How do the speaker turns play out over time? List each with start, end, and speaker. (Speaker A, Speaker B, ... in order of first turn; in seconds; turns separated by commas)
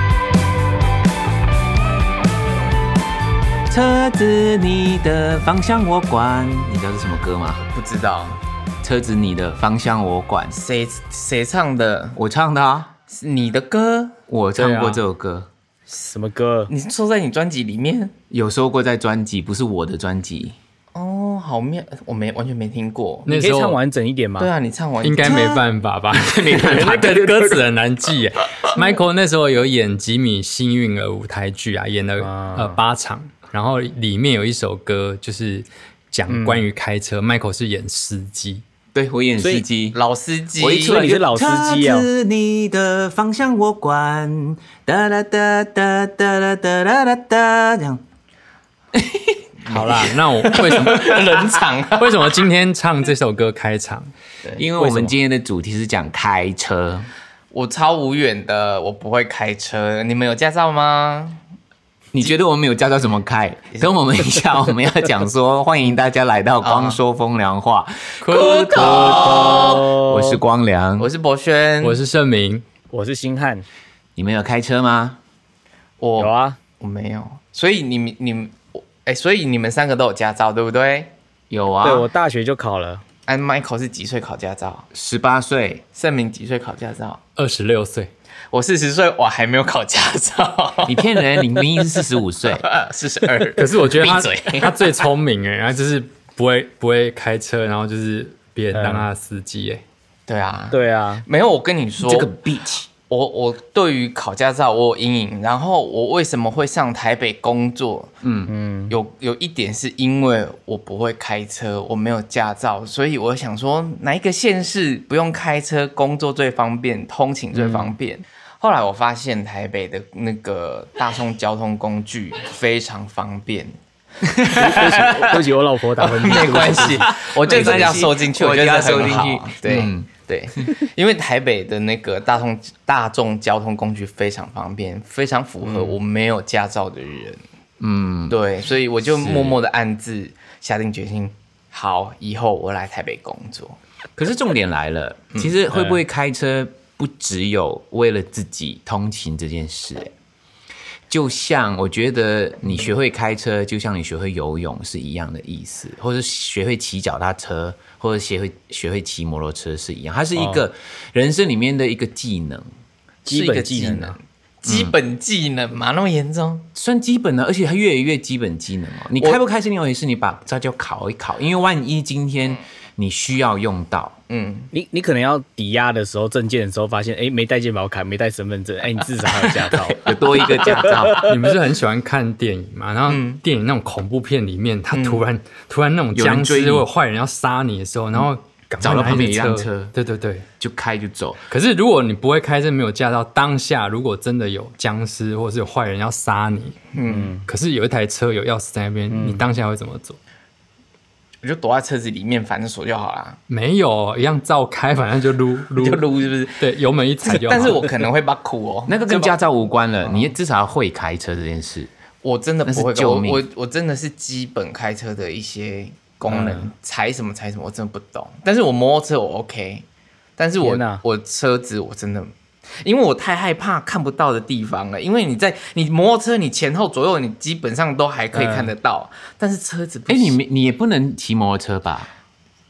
Speaker A: 3.7-7.6, Speaker B: 7.7-8.4, Speaker A: 8.8-10.6, Speaker B: 10.5-12.2, Speaker A: 12.2-12.9, Speaker B: 13.1-14.2, Speaker A: 14.3-15.5, Speaker C: 14.6-15.0, Speaker C: 16.0-16.7, Speaker B: 16.7-18.1, Speaker A: 18.3-20.6, Speaker B: 20.9-23.3, Speaker D: 23.2-23.8, Speaker C: 23.3-24.5, Speaker B: 24.4-25.5, Speaker D: 25.0-38.6, Speaker A: 25.2-27.6, Speaker C: 32.2-32.8, Speaker C: 36.3-36.6, Speaker A: 38.9-40.0, Speaker C: 39.4-39.6, Speaker B: 39.9-41.1, Speaker A: 40.6-48.0, Speaker C: 40.8-42.1, Speaker A: 48.9-49.8, Speaker B: 49.6-52.4, Speaker D: 49.7-51.4, Speaker D: 52.0-54.1, Speaker A: 54.5-57.1, Speaker C: 54.8-55.1, Speaker B: 57.5-61.4, Speaker A: 62.1-71.1, Speaker B: 66.6-67.0, Speaker D: 68.2-69.3, Speaker B: 68.3-69.9, Speaker C: 68.8-70.4, Speaker B: 71.0-72.0, Speaker D: 71.8-72.6, Speaker C: 72.9-73.7, Speaker A: 74.2-75.2, Speaker B: 76.0-81.1, Speaker C: 76.2-76.6, Speaker A: 81.5-82.1, Speaker C: 81.8-83.0, Speaker B: 83.3-84.9, Speaker A: 84.9-85.8, Speaker B: 85.9-87.2, Speaker D: 87.4-88.1, Speaker B: 88.5-91.0, Speaker A: 90.8-92.7, Speaker B: 92.5-95.0, Speaker D: 93.5-99.8, Speaker C: 98.7-99.1, Speaker B: 100.3-102.3, Speaker C: 100.7-101.2, Speaker A: 102.0-102.9, Speaker B: 103.1-108.1, Speaker A: 108.2-108.5, Speaker C: 108.5-108.9, Speaker B: 108.9-123.7, Speaker C: 117.5-117.9, Speaker B: 124.3-125.4, Speaker C: 124.5-127.1, Speaker B: 126.0-137.4, Speaker A: 126.2-130.1, Speaker C: 135.6-136.0, Speaker A: 137.8-138.4, Speaker B: 138.3-143.8, Speaker A: 139.0-139.6, Speaker A: 144.2-150.1, Speaker C: 145.7-146.0, Speaker A: 151.1-162.7, Speaker C: 160.4-160.6, Speaker B: 163.2-166.7, Speaker C: 163.3-164.2, Speaker A: 164.6-164.9, Speaker A: 166.7-174.2, Speaker B: 174.3-174.7, Speaker C: 174.7-181.1, Speaker A: 179.5-181.4, Speaker D: 181.1-190.4, Speaker B: 183.1-183.4, Speaker B: 184.9-185.2, Speaker A: 186.1-186.8, Speaker A: 188.8-189.9, Speaker A: 190.6-191.4, Speaker D: 191.5-196.8, Speaker B: 196.9-197.3, Speaker C: 197.0-197.4, Speaker D: 197.4-200.2, Speaker C: 199.1-199.4, Speaker B: 201.4-203.4, Speaker D: 203.5-207.9, Speaker B: 205.8-206.6, Speaker B: 207.2-209.4, Speaker A: 208.9-211.9, Speaker B: 212.2-219.8, Speaker A: 212.6-213.4, Speaker C: 216.3-216.7, Speaker B: 220.4-222.3, Speaker C: 220.6-221.0, Speaker B: 222.8-230.4, Speaker C: 228.3-228.7, Speaker A: 230.1-232.1